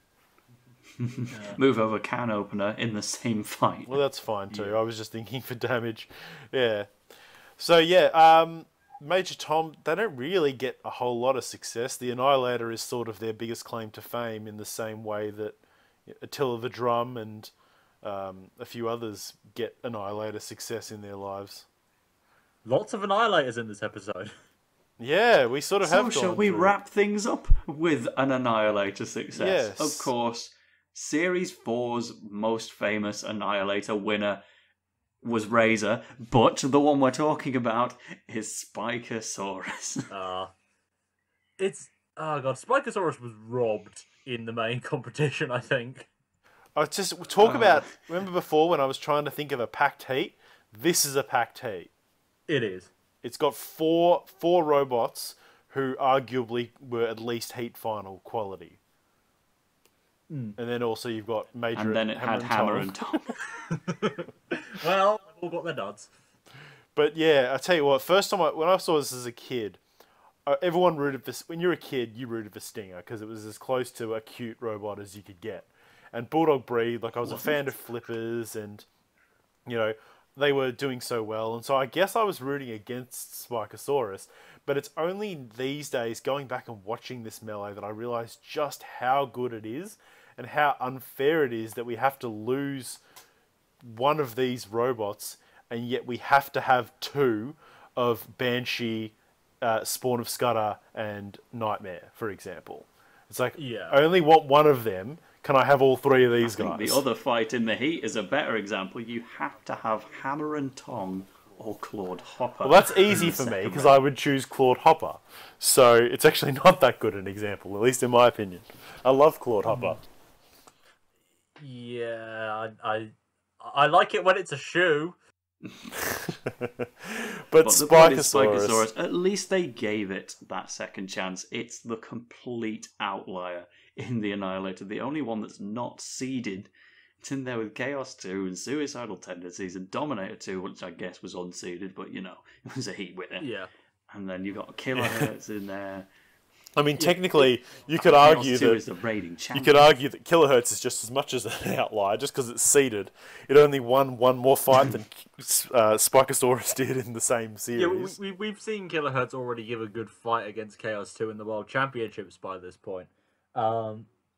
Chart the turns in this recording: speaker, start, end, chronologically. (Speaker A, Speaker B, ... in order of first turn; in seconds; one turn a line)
Speaker A: 1.0-4.0
Speaker B: 1.3-1.6
Speaker C: 3.9-7.0
Speaker C: 7.6-21.6
Speaker B: 22.6-24.3
Speaker C: 25.0-26.7
Speaker A: 25.8-34.4
Speaker C: 29.3-30.1
Speaker A: 35.2-40.1
Speaker B: 40.1-40.5
Speaker B: 41.6-46.1
Speaker C: 46.8-51.9
Speaker A: 47.4-47.9
Speaker B: 52.5-52.9
Speaker C: 53.2-58.8
Speaker B: 60.3-60.6
Speaker C: 60.6-62.9
Speaker A: 61.8-63.4
Speaker B: 63.5-66.1
Speaker C: 67.0-69.8
Speaker C: 70.5-78.8
Speaker A: 77.2-77.6
Speaker C: 79.7-93.0
Speaker C: 93.8-107.0
Speaker B: 103.5-104.0
Speaker A: 106.4-114.0
Speaker C: 112.6-120.0
Speaker B: 119.7-120.0
Speaker B: 121.5-125.2
Speaker C: 125.9-128.9
Speaker A: 127.6-136.7
Speaker A: 137.2-143.5
Speaker B: 143.4-143.7
Speaker A: 144.1-146.1
Speaker C: 144.9-145.3
Speaker C: 146.8-148.8
Speaker B: 147.0-147.4
Speaker A: 148.0-149.9
Speaker C: 149.5-158.2
Speaker B: 157.7-164.1